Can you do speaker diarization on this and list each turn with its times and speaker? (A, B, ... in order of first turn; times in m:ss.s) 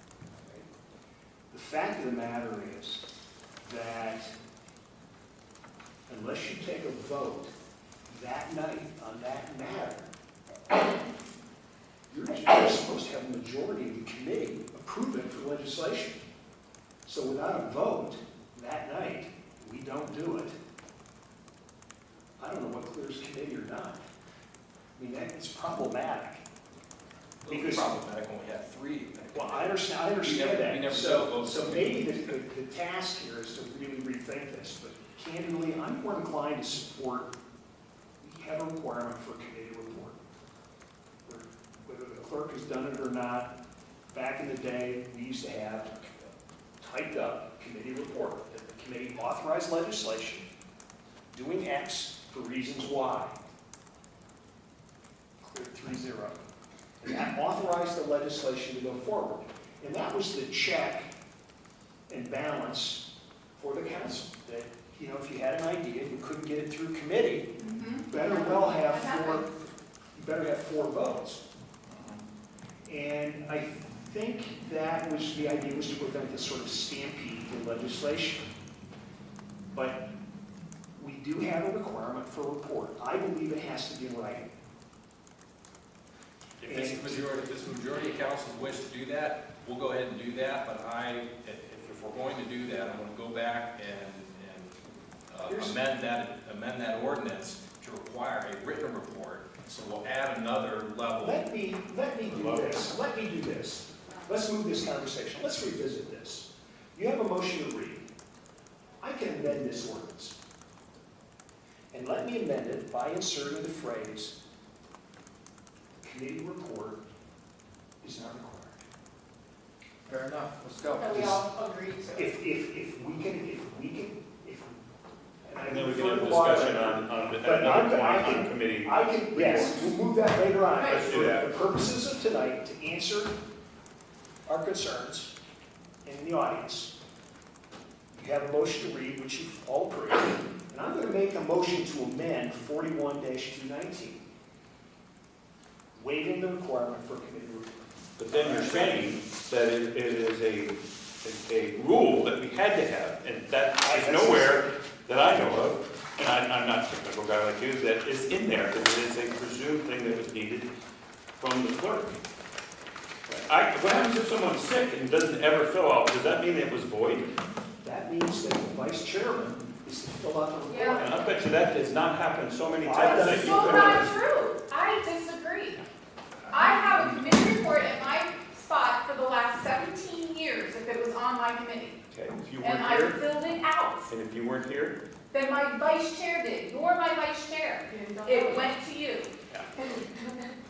0:00.3-0:00.7 A
0:01.5-0:03.0 A
0:03.7-0:04.3 A
0:06.1-0:07.5 A
0:08.1-0:10.1 A
0:12.1-0:16.2 A
0:17.1-0:20.6 A
0:22.4-0:24.0 A
0:25.0-0:26.4 A
0:27.4-0:32.2 B
0:27.5-0:27.9 A
0:29.3-0:37.3 A
0:38.2-0:40.2 A
0:41.2-0:43.5 A
0:44.1-0:46.1 A
0:46.8-0:50.5 A
0:51.3-0:53.4 A
0:55.4-0:56.4 A
0:57.0-1:01.1 A
1:02.1-1:03.0 A
1:03.6-1:07.6 A
1:07.6-1:09.4 C
1:08.1-1:09.5 A
1:10.2-1:11.4 A
1:12.9-1:18.4 A
1:19.7-1:20.1 A
1:21.0-1:24.5 A
1:26.6-1:34.8 B
1:26.6-1:27.2 A
1:35.3-1:41.5 B
1:35.4-1:35.8 A
1:41.2-1:48.0 A
1:42.3-1:42.7 D
1:49.0-1:50.4 A
1:51.9-1:54.4 A
1:56.0-1:57.0 A
1:58.0-1:58.8 A
2:00.1-2:01.4 E
2:01.0-2:01.4 C
2:02.1-2:04.8 A
2:05.4-2:13.4 A
2:05.6-2:09.9 D
2:10.8-2:11.5 D
2:14.5-2:15.3 A
2:16.1-2:16.9 A
2:18.1-2:24.2 A
2:26.0-2:27.7 A
2:28.2-2:40.7 D
2:28.3-2:29.0 A
2:33.8-2:34.6 A
2:41.4-2:42.2 D
2:43.3-2:47.3 D
2:47.8-2:51.1 A
2:50.7-2:51.0 C
2:50.9-2:54.2 D
2:52.8-2:54.1 A
2:53.0-2:55.8 C
2:56.5-3:02.0 C
3:02.1-3:03.2 D
3:02.6-3:04.1 C
3:04.1-3:05.0 D
3:05.3-3:10.3 C
3:08.0-3:08.7 E